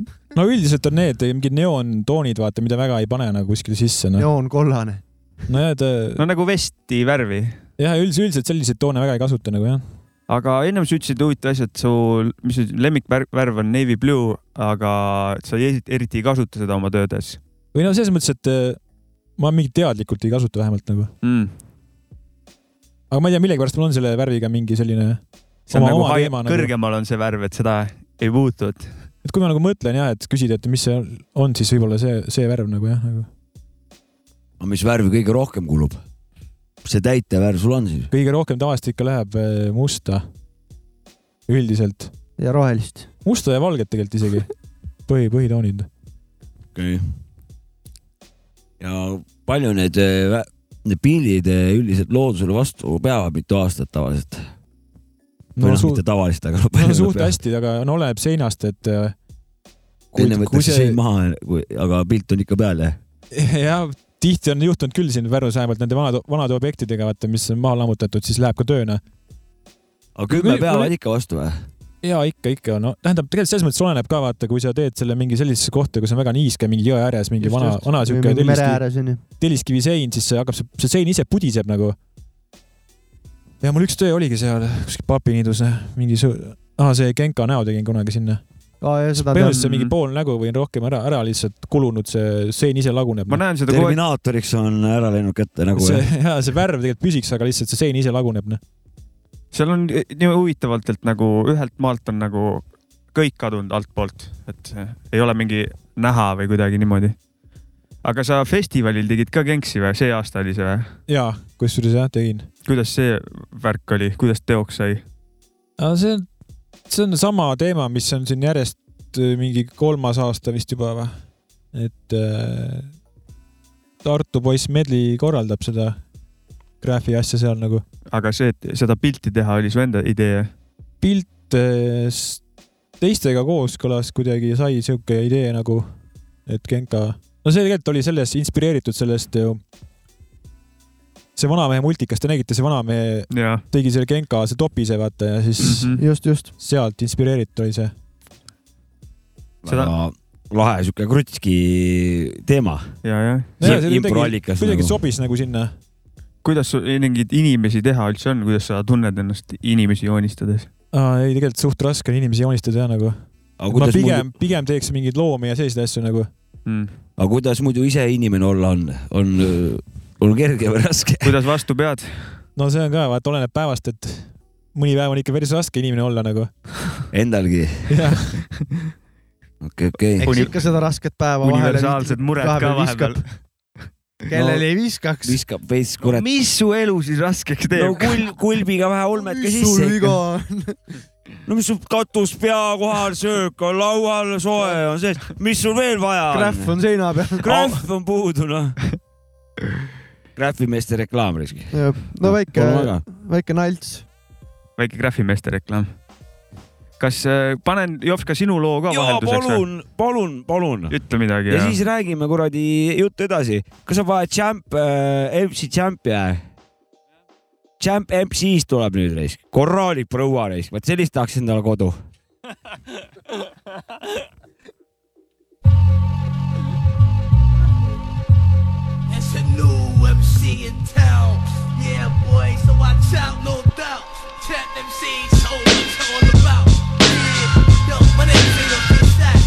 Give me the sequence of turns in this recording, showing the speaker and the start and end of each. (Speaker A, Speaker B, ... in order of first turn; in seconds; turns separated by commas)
Speaker A: 0.3-4.3, Speaker B: 4.2-5.0, Speaker A: 5.5-6.2, Speaker C: 6.2-7.6, Speaker A: 7.8-9.8, Speaker C: 10.3-17.4, Speaker A: 17.7-18.8, Speaker A: 19.4-21.1, Speaker C: 21.2-21.5, Speaker A: 23.1-26.7, Speaker C: 25.7-29.0, Speaker A: 29.2-33.3, Speaker D: 34.6-36.0, Speaker D: 36.8-38.1, Speaker A: 38.1-40.3, Speaker A: 41.5-42.1, Speaker B: 42.4-43.1, Speaker A: 43.2-44.5, Speaker A: 45.1-45.9, Speaker D: 46.8-47.0, Speaker D: 48.8-54.5, Speaker A: 55.6-56.0, Speaker D: 55.6-57.3, Speaker A: 56.7-59.1, Speaker D: 60.1-63.0, Speaker A: 60.1-61.0, Speaker A: 63.3-69.0, Speaker D: 70.2-71.6, Speaker A: 70.3-70.9, Speaker A: 72.0-78.8, Speaker B: 77.4-79.2, Speaker A: 79.4-82.0, Speaker A: 83.6-88.4, Speaker B: 88.8-89.6, Speaker A: 89.1-93.4, Speaker C: 89.5-89.9, Speaker C: 93.3-94.0, Speaker D: 93.7-96.0, Speaker A: 95.7-98.6, Speaker C: 99.5-107.2, Speaker C: 108.0-110.9, Speaker A: 111.1-112.5, Speaker C: 112.7-115.0, Speaker A: 115.8-116.3, Speaker A: 116.9-121.2, Speaker A: 121.7-122.9, Speaker A: 124.0-126.0, Speaker A: 126.8-127.8, Speaker C: 128.1-130.5, Speaker A: 131.0-132.4, Speaker A: 133.0-135.9, Speaker A: 136.5-139.6, Speaker A: 141.4-146.0, Speaker C: 143.3-143.6, Speaker C: 145.6-146.0, Speaker B: 145.9-146.5, Speaker A: 146.6-147.9, Speaker D: 149.6-152.9, Speaker C: 149.7-149.9, Speaker C: 153.0-153.8, Speaker A: 153.6-155.7, Speaker D: 153.6-154.9, Speaker C: 156.4-160.7, Speaker A: 160.9-166.3, Speaker D: 163.6-164.3, Speaker C: 166.7-166.9, Speaker D: 167.2-171.4, Speaker C: 171.2-172.4, Speaker A: 172.6-176.5, Speaker D: 177.1-178.0, Speaker A: 177.9-178.4, Speaker D: 179.6-180.3, Speaker B: 180.2-183.2, Speaker C: 180.2-180.6, Speaker C: 181.4-183.4, Speaker B: 184.3-185.4, Speaker D: 184.3-184.7, Speaker D: 185.2-186.2, Speaker C: 186.0-188.3, Speaker D: 187.8-190.2, Speaker B: 189.2-190.8, Speaker D: 191.5-196.8, Speaker B: 196.3-197.5, Speaker D: 197.4-198.8, Speaker D: 200.4-203.0, Speaker B: 201.7-204.1, Speaker C: 204.8-205.9, Speaker C: 207.0-209.7, Speaker D: 208.9-211.0, Speaker C: 210.9-211.8, Speaker D: 211.5-216.4, Speaker D: 217.8-222.0, Speaker E: 229.2-232.2, Speaker E: 233.1-233.8, Speaker E: 234.6-236.9, Speaker E: 238.1-238.6